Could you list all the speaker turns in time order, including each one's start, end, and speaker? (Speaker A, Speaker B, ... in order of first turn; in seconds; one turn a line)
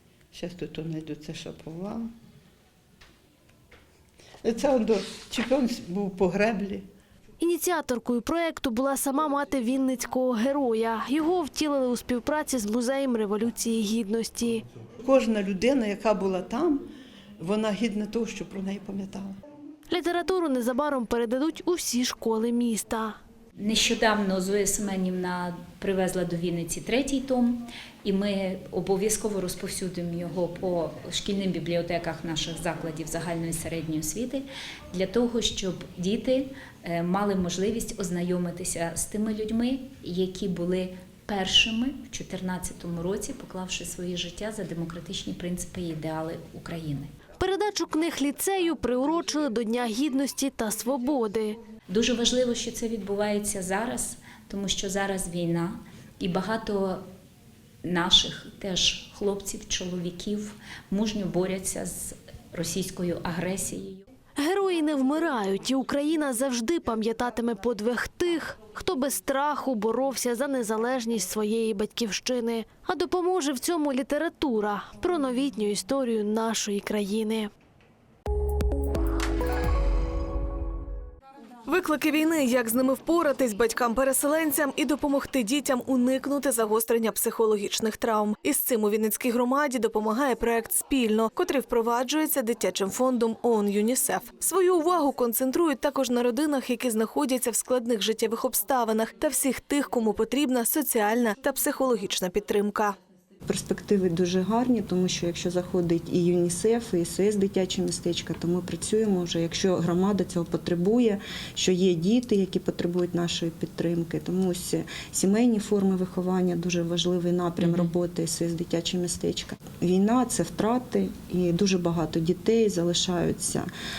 Speaker A: 0.3-2.1
Speaker A: 4.4-6.8
Speaker B: 7.4-14.6
Speaker A: 15.0-16.9
Speaker A: 17.4-19.4
Speaker B: 19.9-23.2
Speaker C: 23.6-47.1
Speaker B: 47.4-51.6
Speaker C: 51.9-57.0
Speaker C: 57.8-64.0
Speaker B: 64.4-77.5
Speaker D: 81.7-103.0
Speaker E: 103.5-123.7